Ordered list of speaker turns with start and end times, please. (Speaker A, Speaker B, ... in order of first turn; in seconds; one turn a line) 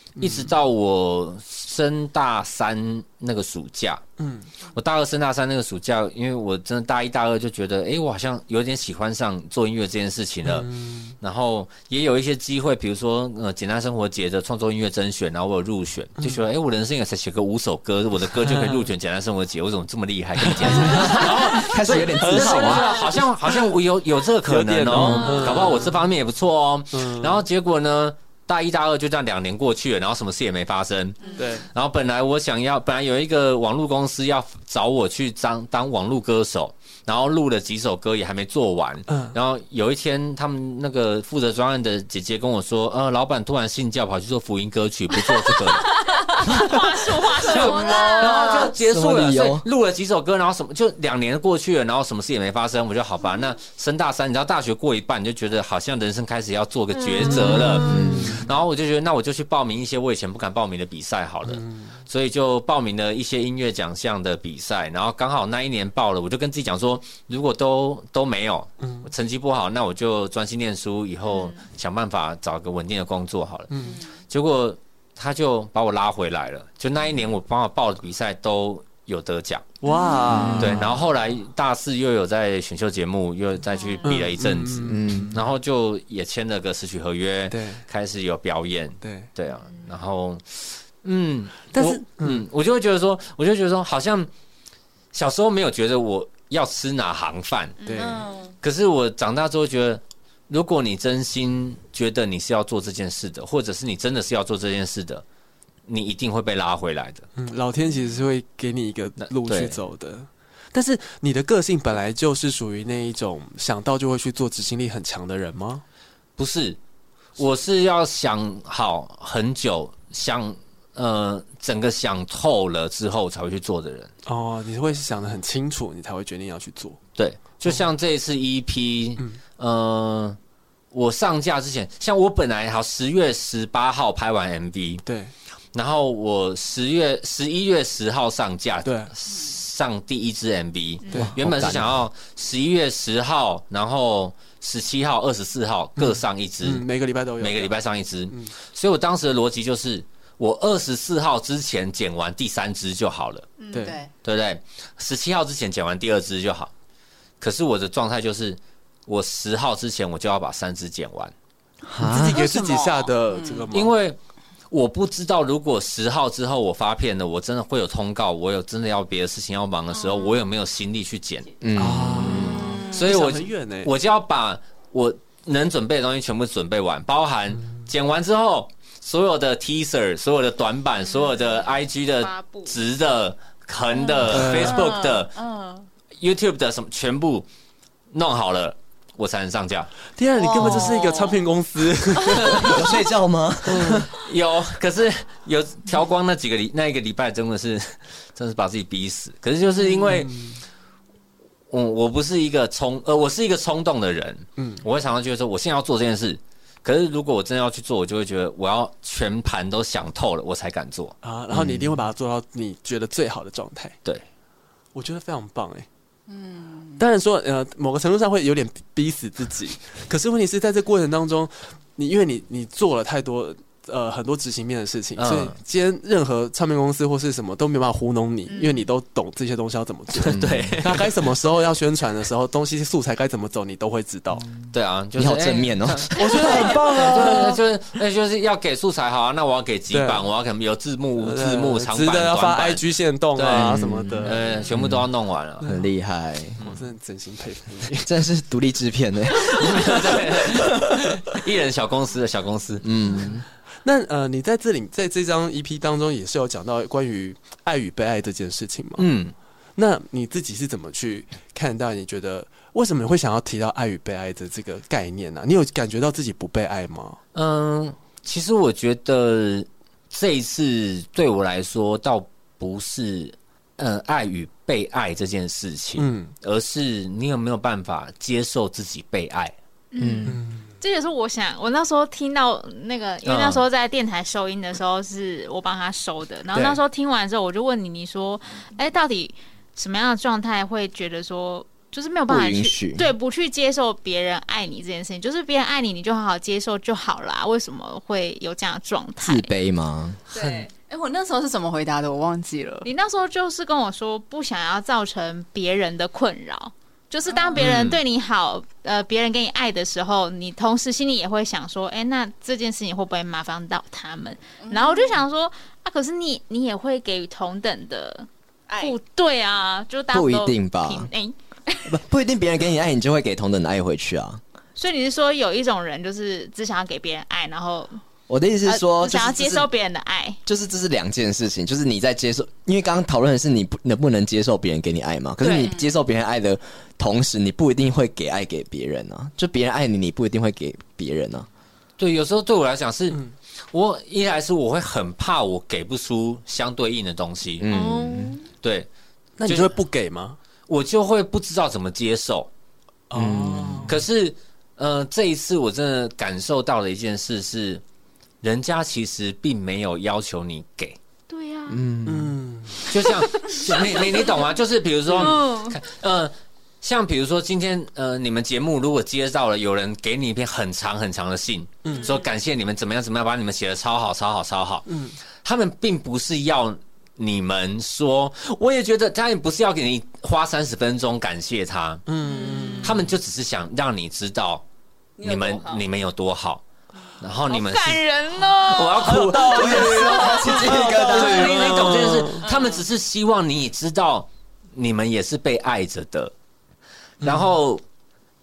Speaker A: 0.2-0.5
Speaker B: 0.2-4.0
Speaker A: 4.2-4.5
Speaker B: 4.7-10.7
Speaker A: 10.5-11.2
Speaker B: 11.2-45.9
Speaker A: 18.4-18.9
Speaker A: 20.6-23.7
Speaker C: 20.6-23.0
Speaker A: 24.4-25.9
Speaker C: 24.9-25.3
Speaker D: 25.1-25.8
Speaker A: 26.9-27.4
Speaker A: 31.3-31.7
Speaker A: 39.1-39.4
Speaker D: 46.0-48.7
Speaker B: 47.4-73.7
Speaker E: 47.6-48.7
Speaker C: 48.7-49.7
Speaker A: 57.3-58.5
Speaker C: 57.8-58.5
Speaker A: 61.5-61.9
Speaker A: 68.8-69.1
Speaker D: 71.3-71.6
Speaker A: 73.7-74.0
Speaker B: 74.3-79.7
Speaker A: 79.8-81.0
Speaker E: 79.8-80.5
Speaker C: 80.3-80.9
Speaker B: 80.6-94.3
Speaker D: 83.8-84.1
Speaker A: 84.1-85.4
Speaker C: 84.9-85.3
Speaker A: 87.5-87.8
Speaker A: 89.0-89.3
Speaker A: 91.7-92.5
Speaker B: 95.1-97.8
Speaker D: 97.8-98.5
Speaker A: 97.9-98.3
Speaker B: 98.6-105.2
Speaker B: 105.9-107.3
Speaker A: 107.4-115.8
Speaker B: 109.2-109.8
Speaker B: 116.4-116.8
Speaker B: 117.4-124.1
Speaker A: 124.2-127.0
Speaker B: 127.2-130.4
Speaker B: 130.9-135.0
Speaker A: 135.1-135.3
Speaker B: 135.7-146.9
Speaker A: 138.8-139.1
Speaker C: 141.1-141.9
Speaker A: 146.0-147.8
Speaker B: 147.4-153.5
Speaker D: 153.6-154.0
Speaker A: 153.7-154.0
Speaker E: 153.7-154.1
Speaker B: 154.2-156.7
Speaker B: 157.4-161.3
Speaker C: 161.9-162.4
Speaker A: 162.0-163.9
Speaker E: 162.0-163.7
Speaker B: 163.7-164.2
Speaker B: 164.7-171.5
Speaker C: 171.6-172.8
Speaker A: 171.8-173.9
Speaker E: 172.3-173.0
Speaker B: 172.9-185.3
Speaker D: 181.2-181.6
Speaker D: 182.2-182.8
Speaker E: 184.3-185.9
Speaker A: 184.3-184.8
Speaker B: 186.2-187.5
Speaker B: 188.1-189.9
Speaker A: 190.2-192.9
Speaker E: 190.4-191.4
Speaker E: 192.2-192.8
Speaker C: 192.5-194.1
Speaker A: 193.7-194.1
Speaker B: 194.1-200.3
Speaker A: 199.8-200.6
Speaker B: 201.7-211.2
Speaker A: 204.6-204.8
Speaker A: 211.2-214.0
Speaker C: 211.5-211.9
Speaker A: 214.9-215.9
Speaker E: 216.3-217.0
Speaker A: 217.0-234.5
Speaker B: 225.2-225.6
Speaker D: 228.5-228.9
Speaker B: 230.1-231.1
Speaker C: 230.3-230.8
Speaker B: 234.7-242.8
Speaker C: 235.2-236.8
Speaker A: 236.2-237.6
Speaker A: 239.9-240.2
Speaker A: 241.2-244.4
Speaker B: 243.3-245.7
Speaker C: 243.5-245.1
Speaker C: 245.6-246.6
Speaker A: 246.6-248.1
Speaker C: 248.0-250.2
Speaker B: 249.4-252.8
Speaker C: 252.8-253.4
Speaker A: 253.8-259.1
Speaker B: 259.0-259.3
Speaker A: 259.8-267.2
Speaker B: 267.3-279.6
Speaker A: 276.0-276.3
Speaker D: 279.9-299.5
Speaker C: 280.0-280.4
Speaker A: 280.3-280.6
Speaker B: 283.2-283.6
Speaker C: 292.3-293.1
Speaker C: 299.2-300.2
Speaker E: 300.3-302.9
Speaker A: 300.4-300.6
Speaker D: 302.8-321.4
Speaker B: 307.6-308.0
Speaker E: 314.6-315.2
Speaker E: 318.7-318.9
Speaker C: 320.1-321.1
Speaker C: 321.9-324.4
Speaker D: 324.8-328.0
Speaker C: 328.3-329.7
Speaker D: 328.6-330.4
Speaker C: 330.5-341.5
Speaker D: 335.4-335.7
Speaker E: 335.6-335.8
Speaker B: 342.0-347.7
Speaker C: 347.6-348.4
Speaker D: 347.7-348.4
Speaker B: 348.6-348.9
Speaker A: 349.4-350.4
Speaker B: 349.4-349.7
Speaker B: 350.7-352.5
Speaker A: 353.1-354.0
Speaker C: 353.1-354.0
Speaker B: 353.9-357.8
Speaker B: 358.4-361.0
Speaker D: 361.3-361.8
Speaker C: 361.7-362.4
Speaker A: 362.1-362.8
Speaker B: 362.9-374.9
Speaker D: 363.3-364.4
Speaker D: 365.1-365.8
Speaker A: 371.8-372.2
Speaker D: 371.9-372.2
Speaker A: 374.9-375.2
Speaker B: 375.4-382.0
Speaker A: 382.1-383.1
Speaker E: 382.2-382.9
Speaker D: 382.3-382.8
Speaker B: 382.8-384.6
Speaker E: 385.2-385.8
Speaker B: 385.2-386.6
Speaker B: 387.2-396.3
Speaker D: 387.5-390.6
Speaker A: 389.2-392.4
Speaker C: 389.3-391.9
Speaker E: 390.0-390.7
Speaker E: 392.4-392.8
Speaker B: 397.2-397.8